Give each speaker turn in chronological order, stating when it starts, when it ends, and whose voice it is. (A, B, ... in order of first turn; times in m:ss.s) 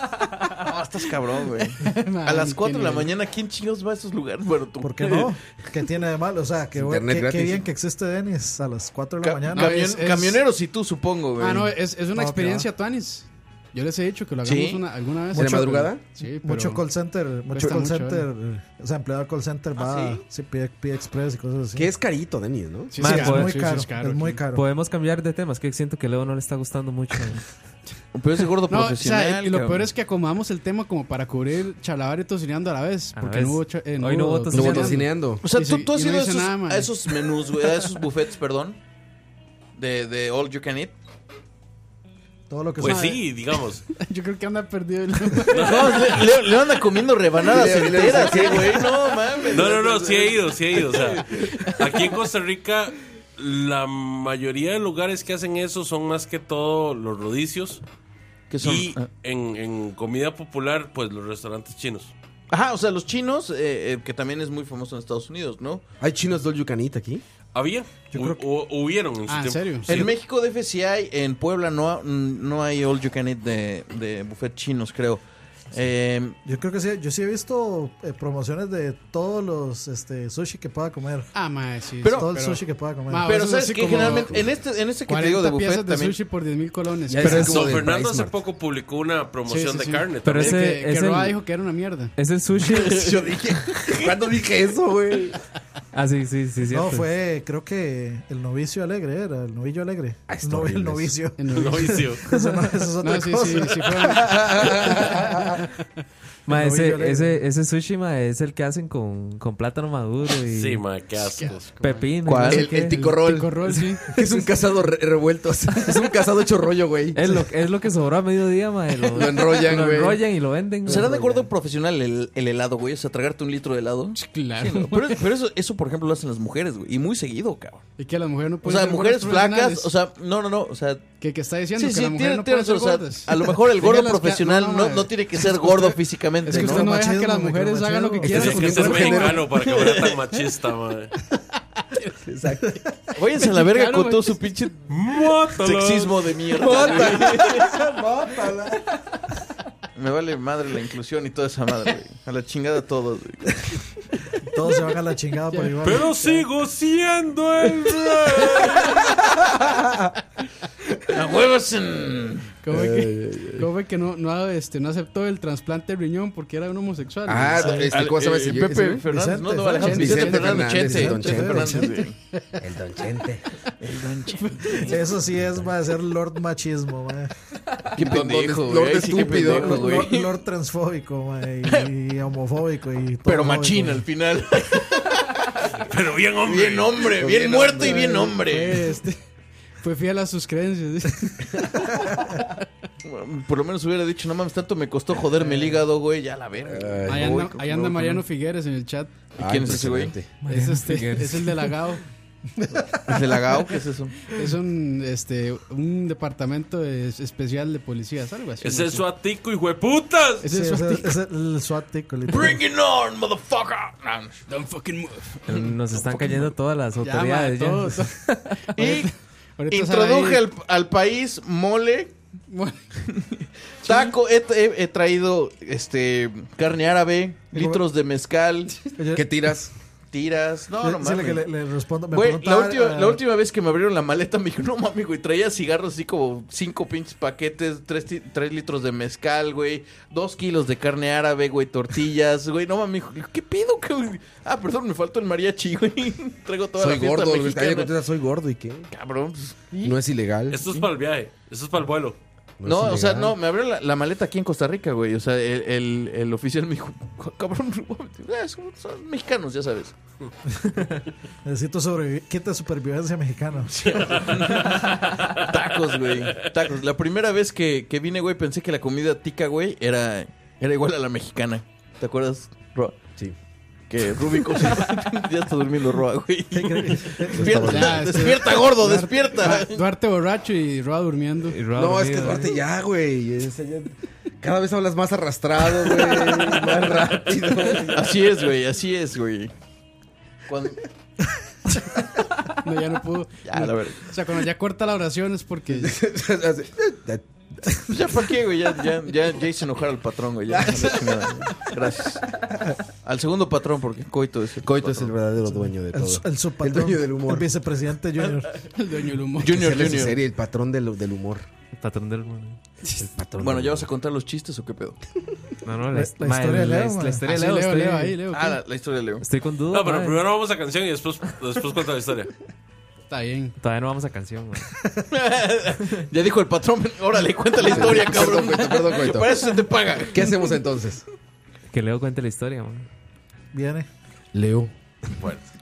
0:00.6-0:05.3 A
0:01.8-0:03.1 B
0:04.8-0:09.9 C
0:06.7-0:07.6 D
0:09.2-0:11.7 A
0:09.5-0:10.4 B
0:11.4-0:16.8 B
0:12.1-0:12.7 C
0:14.4-0:14.8 A
0:15.3-0:21.9 C
0:15.3-0:16.0 D
0:17.5-0:18.2 B
0:19.8-0:20.2 A
0:21.7-0:23.0 D
0:22.9-0:24.4 B
0:23.0-0:23.7 E
0:23.0-0:24.6 C
0:24.5-0:27.4 E
0:28.1-0:29.9 A
0:28.7-0:36.9 B
0:33.1-0:35.1 E
0:34.5-0:35.4 D
0:35.4-0:38.8 A
0:39.8-0:40.9 A
0:42.5-0:43.2 C
0:42.8-0:43.8 F
0:42.8-0:43.2 B
0:43.9-0:46.2 B
0:45.5-0:46.3 F
0:45.6-0:50.4 A
0:47.4-0:48.9 D
0:47.9-0:48.9 B
0:49.5-0:57.8 F
0:51.2-0:52.0 B
0:58.5-0:59.1 A
0:58.6-1:02.1 F
1:02.5-1:05.8 A
1:06.0-1:07.2 D
1:07.5-1:10.1 F
1:08.1-1:08.4 C
1:09.3-1:09.9 B
1:09.9-1:16.4 A
1:16.4-1:21.3 C
1:21.3-1:24.4 B
1:22.1-1:23.3 C
1:23.2-1:26.2 A
1:24.1-1:24.4 D
1:25.1-1:27.8 B
1:27.1-1:28.4 D
1:27.4-1:30.5 F
1:29.5-1:32.1 B
1:30.2-1:31.4 E
1:32.2-1:33.2 E
1:32.6-1:34.2 A
1:32.8-1:35.4 D
1:35.9-1:37.1 E
1:36.7-1:44.3 C
1:40.3-1:41.1 D
1:41.4-1:42.5 B
1:41.5-1:42.3 F
1:43.0-1:45.6 B
1:44.0-1:45.6 D
1:46.5-1:50.8 E
1:46.5-1:47.4 C
1:50.5-1:51.8 F
1:51.2-1:52.1 B
1:51.8-1:53.0 E
1:52.2-1:52.6 A
1:52.5-1:57.2 D
1:52.7-1:54.0 B
1:57.1-2:01.1 E
1:59.1-2:00.2 D
2:00.8-2:07.8 A
2:00.9-2:01.2 D
2:04.1-2:05.2 B
2:08.0-2:09.9 B
2:08.6-2:11.0 A
2:11.2-2:15.1 B
2:11.7-2:16.9 A
2:16.4-2:19.4 B
2:16.5-2:19.3 C
2:18.2-2:21.1 F
2:18.2-2:19.5 D
2:19.6-2:20.2 A
2:21.8-2:22.2 B
2:22.2-2:22.8 D
2:23.1-2:24.9 A
2:23.4-2:24.4 B
2:24.9-2:26.3 F
2:25.5-2:27.7 A
2:26.6-2:28.8 D
2:29.9-2:33.8 A
2:34.4-2:36.4 C
2:35.5-2:36.0 B
2:35.8-2:39.0 F
2:39.6-2:40.0 D
2:41.1-2:42.5 A
2:42.6-2:47.9 B
2:42.7-2:43.7 D
2:47.2-2:49.0 D
2:47.6-2:52.2 A
2:49.1-2:52.0 C
2:49.8-2:50.6 B
2:49.8-2:51.8 D
2:51.8-2:52.5 B
2:52.6-2:53.4 D
2:53.8-2:55.0 A
2:54.4-2:54.9 B
2:54.8-2:57.3 C
2:55.4-2:55.7 D
2:57.9-3:00.1 D
2:58.0-3:00.3 A
2:59.3-3:04.0 C
3:01.6-3:01.9 A
3:03.2-3:05.7 A
3:05.8-3:07.1 F
3:06.4-3:08.8 A
3:07.1-3:08.3 D
3:07.8-3:09.2 B
3:09.8-3:12.4 B
3:13.0-3:17.1 A
3:16.6-3:18.2 D
3:17.1-3:19.1 B
3:19.4-3:20.1 A
3:19.4-3:21.2 D
3:20.4-3:21.4 E
3:20.5-3:22.0 B
3:23.1-3:24.2 A
3:24.3-3:29.0 B
3:28.6-3:30.5 F
3:30.4-3:31.2 B
3:30.5-3:32.6 C
3:32.3-3:34.4 A
3:34.5-3:35.6 B
3:35.5-3:38.8 E
3:37.0-3:40.4 B
3:38.8-3:39.1 A
3:39.7-3:42.1 A
3:42.5-3:42.8 B
3:43.8-3:48.8 A
3:47.5-3:47.8 C
3:49.0-3:49.2 C
3:49.1-3:49.7 D
3:50.1-3:51.5 A
3:50.8-3:53.2 C
3:52.1-4:07.9 A
4:06.8-4:08.9 D
4:08.9-4:10.0 A
4:09.8-4:10.6 D
4:10.5-4:12.2 F
4:12.6-4:13.4 D
4:12.6-4:19.9 A
4:21.4-4:23.7 C
4:23.7-4:33.0 A
4:23.9-4:25.4 F
4:33.9-4:39.8 A
4:36.5-4:37.8 C
4:37.3-4:38.1 D
4:37.7-4:41.6 B
4:41.5-4:42.5 E
4:41.7-4:48.2 D
4:45.9-4:46.6 A
4:47.8-4:49.5 A
4:50.5-4:50.8 A
4:52.6-4:56.0 B
4:53.4-4:54.0 A
4:55.7-4:57.8 D
4:57.9-5:02.3 A
5:00.5-5:01.3 D
5:03.0-5:05.1 A
5:04.6-5:07.5 D
5:05.5-5:08.5 C
5:08.7-5:09.8 B
5:09.4-5:10.2 A
5:09.5-5:11.5 D
5:11.7-5:12.6 E
5:13.0-5:13.9 D
5:13.4-5:15.0 A
5:15.6-5:18.2 E
5:15.9-5:17.2 C
5:17.2-5:18.6 B
5:18.3-5:19.2 A
5:19.2-5:20.2 E
5:19.7-5:22.3 F
5:23.1-5:23.6 B
5:23.6-5:24.7 E
5:25.1-5:30.3 A
5:27.6-5:29.3 D
5:30.1-5:31.0 D
5:31.7-5:32.8 E
5:33.5-5:33.9 C
5:34.3-5:34.7 D
5:35.2-5:35.5 F